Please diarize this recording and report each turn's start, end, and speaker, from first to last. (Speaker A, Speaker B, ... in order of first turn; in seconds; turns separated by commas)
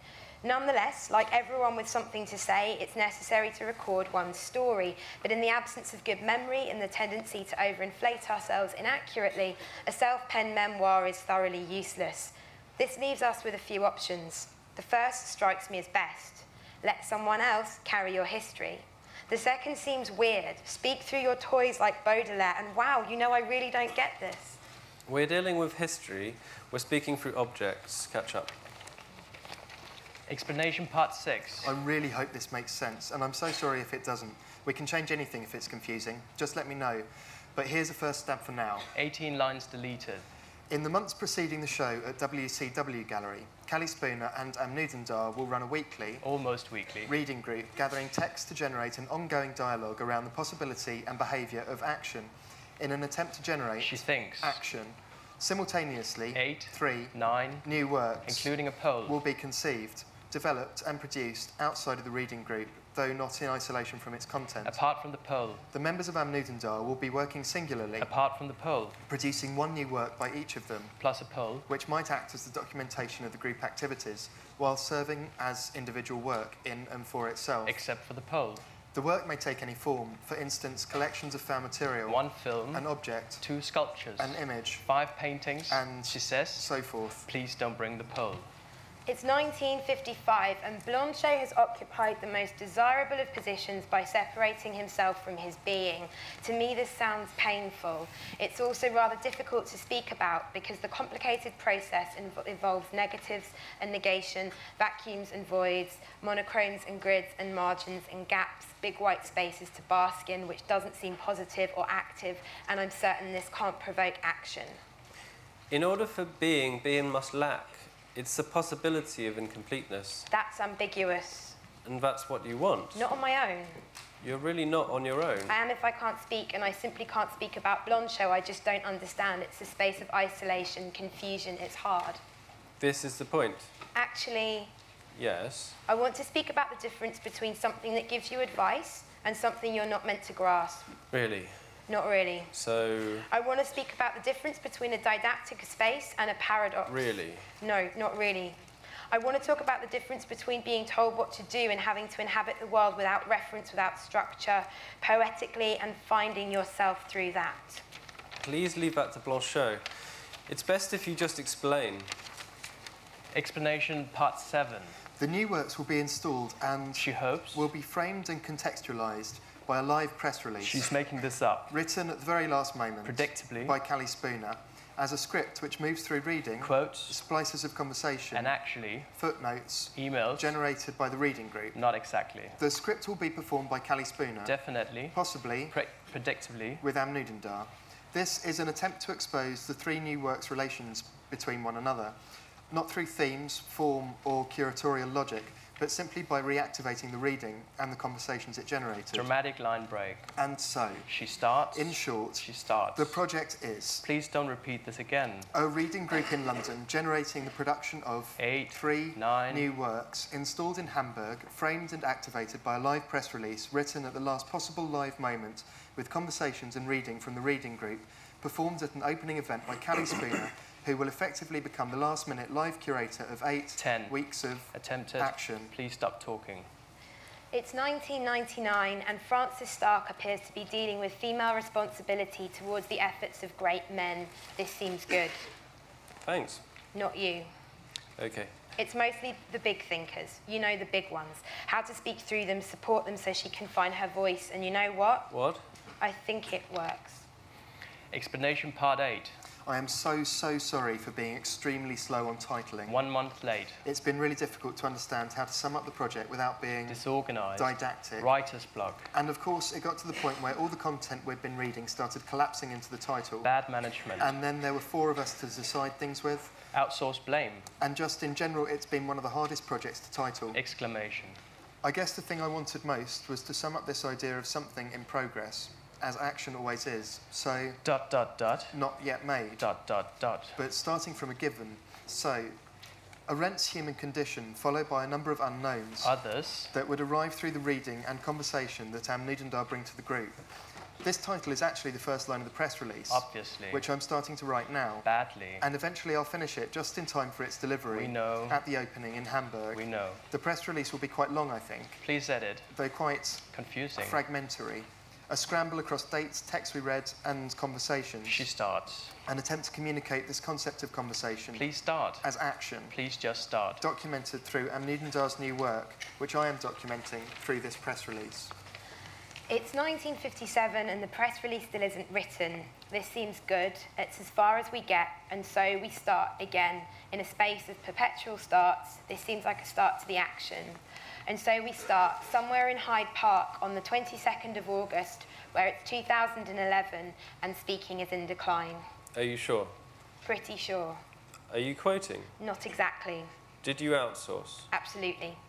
Speaker A: 0.4-24.6, Speaker B: 25.1-28.5, Speaker C: 30.3-31.7, Speaker D: 31.6-38.9, Speaker C: 38.9-40.2, Speaker D: 40.7-46.2, Speaker C: 46.2-47.1, Speaker D: 47.1-64.8, Speaker C: 53.8-54.6, Speaker C: 56.3-57.6, Speaker C: 58.2-59.1, Speaker C: 64.6-65.6, Speaker D: 65.7-68.1, Speaker C: 68.0-69.0, Speaker D: 69.1-71.0, Speaker C: 71.0-71.7, Speaker D: 71.7-77.8, Speaker C: 77.6-78.6, Speaker D: 78.9-83.4, Speaker C: 82.0-82.9, Speaker C: 83.4-86.7, Speaker D: 84.2-84.9, Speaker D: 85.7-87.3, Speaker C: 87.2-88.5, Speaker A: 89.1-114.8, Speaker B: 115.7-120.3, Speaker A: 120.3-121.6, Speaker B: 121.8-123.0, Speaker A: 123.0-123.8, Speaker B: 124.2-125.5, Speaker A: 125.5-132.2, Speaker B: 132.8-133.7, Speaker A: 133.9-134.7, Speaker B: 135.1-135.8, Speaker A: 135.9-140.9, Speaker B: 141.1-141.6, Speaker A: 141.9-142.5, Speaker B: 142.5-143.2, Speaker A: 143.2-147.0, Speaker B: 146.9-147.5, Speaker A: 147.6-148.6, Speaker A: 149.1-157.8, Speaker B: 158.4-159.8, Speaker B: 160.5-162.1, Speaker C: 163.3-165.0, Speaker D: 165.2-170.8, Speaker C: 166.9-167.6, Speaker C: 170.6-171.7, Speaker D: 171.7-178.5, Speaker C: 173.0-173.8, Speaker C: 176.6-177.2, Speaker C: 178.3-179.1, Speaker D: 179.1-181.8, Speaker C: 179.9-180.5, Speaker C: 181.7-182.6, Speaker D: 182.6-184.6, Speaker C: 184.4-185.1, Speaker D: 185.1-185.8, Speaker C: 185.7-186.8, Speaker D: 186.8-192.1, Speaker D: 192.7-199.3, Speaker C: 199.1-200.3, Speaker D: 200.4-201.1, Speaker C: 201.1-203.2, Speaker D: 201.7-204.0, Speaker C: 204.0-205.5, Speaker D: 205.5-225.7, Speaker C: 208.4-209.7, Speaker C: 223.8-224.2, Speaker C: 224.7-226.7, Speaker A: 227.5-235.4, Speaker B: 236.2-236.6, Speaker A: 236.9-237.5, Speaker B: 238.2-238.5, Speaker A: 238.8-245.3, Speaker B: 245.3-245.6, Speaker A: 246.0-247.2, Speaker C: 248.1-249.3, Speaker D: 249.6-253.0, Speaker C: 252.9-253.8, Speaker D: 253.8-257.0, Speaker C: 256.9-259.1, Speaker D: 257.6-258.3, Speaker D: 259.1-263.5, Speaker C: 263.4-264.3, Speaker D: 264.2-266.6, Speaker C: 266.7-267.7, Speaker D: 267.8-270.6, Speaker C: 270.5-271.4, Speaker D: 271.8-277.8, Speaker C: 277.8-278.8, Speaker D: 278.7-279.7, Speaker C: 279.6-280.6, Speaker D: 280.6-282.5, Speaker D: 283.3-286.1, Speaker C: 286.0-286.7, Speaker D: 286.7-290.4, Speaker D: 291.0-295.1, Speaker C: 293.1-293.9, Speaker C: 295.0-295.6, Speaker D: 295.6-302.0, Speaker C: 297.9-298.6, Speaker C: 299.7-300.2, Speaker C: 302.0-302.7, Speaker D: 302.7-308.4, Speaker C: 303.5-304.2, Speaker C: 308.2-309.1, Speaker D: 309.2-311.7, Speaker C: 311.5-312.2, Speaker D: 312.2-313.0, Speaker C: 312.9-313.8, Speaker D: 313.8-318.5, Speaker A: 319.5-338.9, Speaker B: 339.1-339.7, Speaker A: 340.2-341.0, Speaker B: 341.5-342.3, Speaker A: 342.4-343.3, Speaker B: 343.6-344.7, Speaker A: 344.7-345.4